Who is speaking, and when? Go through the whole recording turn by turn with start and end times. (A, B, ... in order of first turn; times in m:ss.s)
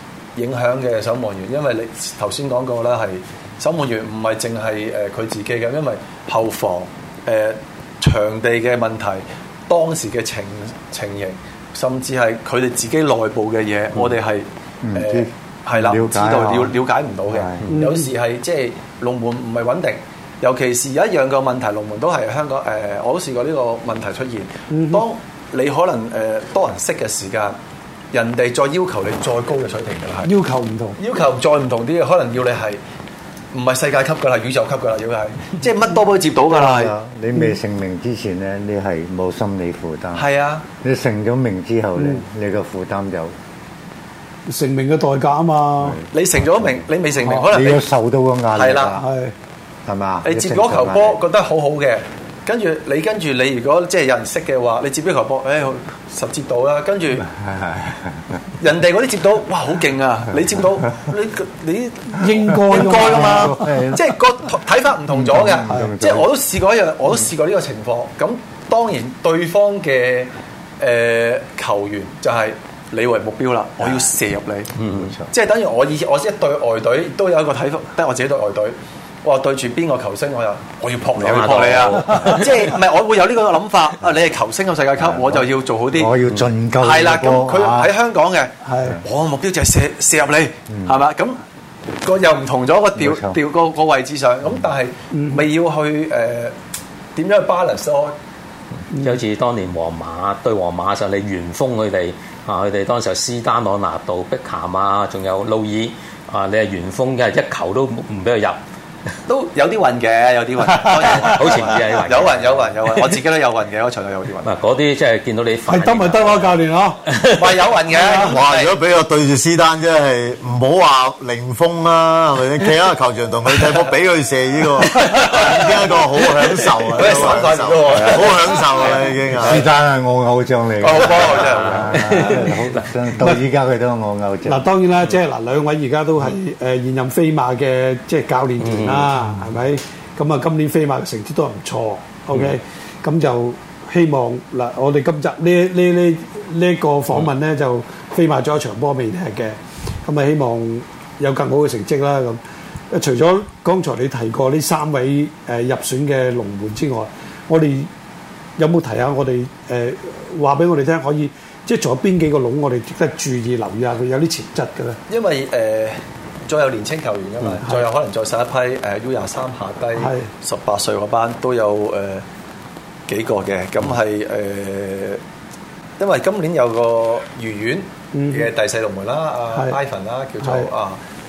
0:00.4-0:27.6 A
0:14.8-0:16.8 B
0:17.3-0:17.7 B
0:17.7-0:18.1 C
0:24.7-0:25.0 C
0:28.1-0:30.3 A
0:30.2-0:31.0 C
0:31.0-0:32.8 A
0:33.5-0:36.9 A
0:36.5-0:40.2 B
0:40.1-0:40.6 A
0:40.8-0:43.3 B
0:44.5-0:46.0 C
0:45.8-0:46.8 B
0:46.1-0:47.8 A
0:47.5-0:49.0 B
0:48.5-0:49.0 A
0:49.0-0:49.3 C
0:49.9-0:51.2 B
0:50.2-0:57.2 A
0:57.4-0:58.2 B
0:58.6-1:14.7 A
1:02.1-1:03.7 C
1:02.7-1:04.1 B
1:05.1-1:06.3 B
1:14.8-1:15.1 D
1:14.9-1:15.2 B
1:15.3-1:26.2 A
1:21.2-1:22.8 D
1:25.1-1:27.9 B
1:26.8-1:31.4 A
1:28.6-1:29.0 C
1:32.0-1:36.5 A
1:33.0-1:33.4 B
1:35.1-1:35.4 C
1:37.2-1:38.1 A
1:39.0-1:48.6 D
1:49.3-1:54.5 A
1:50.7-1:51.3 C
1:51.0-1:53.2 D
1:54.4-1:57.7 D
1:55.7-1:57.0 C
1:57.3-1:58.8 A
1:57.9-1:58.4 C
1:58.3-2:09.6 E
2:04.8-2:05.9 D
2:05.1-2:05.6 A
2:06.9-2:08.9 A
2:09.4-2:14.7 B
2:10.8-2:12.2 A
2:11.1-2:13.0 D
2:14.5-2:32.4 C
2:18.6-2:19.1 D
2:32.9-2:37.9 C
2:38.6-2:45.0 C
2:45.1-2:52.2 A
2:50.0-2:50.3 C
2:53.1-2:55.2 A
2:56.0-3:01.0 A
2:58.1-2:58.5 C
2:59.5-2:59.8 C
3:00.4-3:00.7 C